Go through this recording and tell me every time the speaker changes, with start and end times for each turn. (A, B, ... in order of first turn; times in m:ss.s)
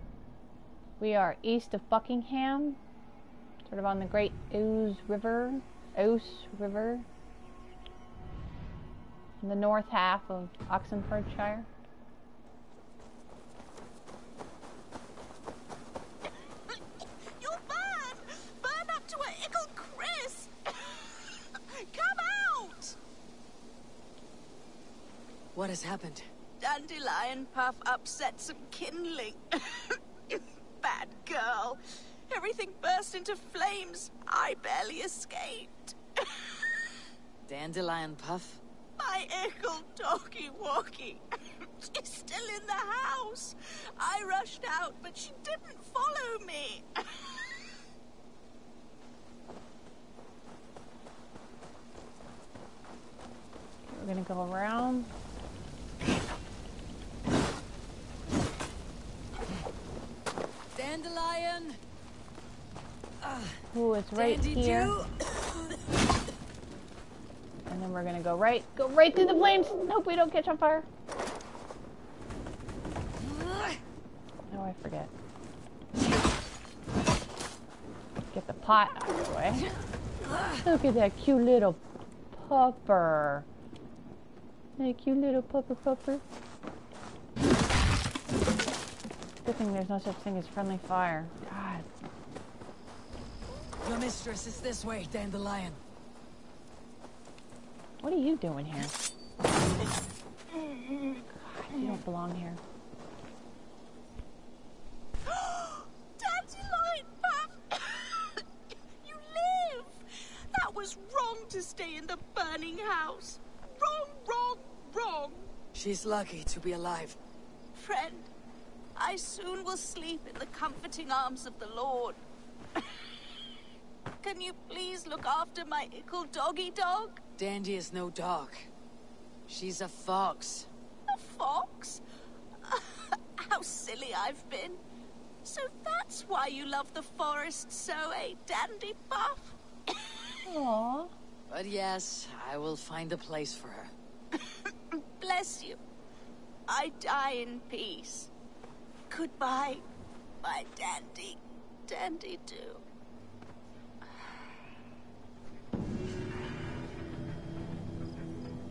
0:01.0-0:02.8 A
0:03.6-0:07.1 A
0:09.4-0:11.7 A
0:17.4-0:23.0 B
0:25.5-0:26.3 C
0:26.6-0:36.9 B
0:37.5-0:38.6 C
0:39.0-0:47.8 B
0:53.9-0:55.1 A
1:00.8-1:01.8 C
1:03.2-1:03.6 C
1:03.7-1:05.0 A
1:04.2-1:05.1 C
1:07.7-1:10.9 A
1:13.2-1:13.8 C
1:14.5-1:15.1 A
1:18.3-1:19.7 A
1:20.6-1:21.8 A
1:22.3-1:23.5 A
1:24.8-1:26.2 A
1:29.4-1:31.8 A
1:33.8-1:35.8 C
1:38.0-1:39.0 A
1:41.3-1:42.6 A
1:45.3-1:48.4 B
1:49.0-1:55.5 B
1:55.7-1:57.2 C
1:57.8-1:58.3 B
1:59.0-2:02.2 B
2:02.8-2:03.1 B
2:04.2-2:07.3 B
2:07.4-2:08.6 C
2:09.5-2:10.7 C
2:11.1-2:12.0 B
2:12.6-2:14.8 B
2:15.4-2:20.4 B
2:20.4-2:21.1 A
2:21.5-2:23.9 C
2:24.4-2:25.8 B
2:26.7-2:28.3 B
2:29.1-2:29.8 B
2:30.4-2:32.8 B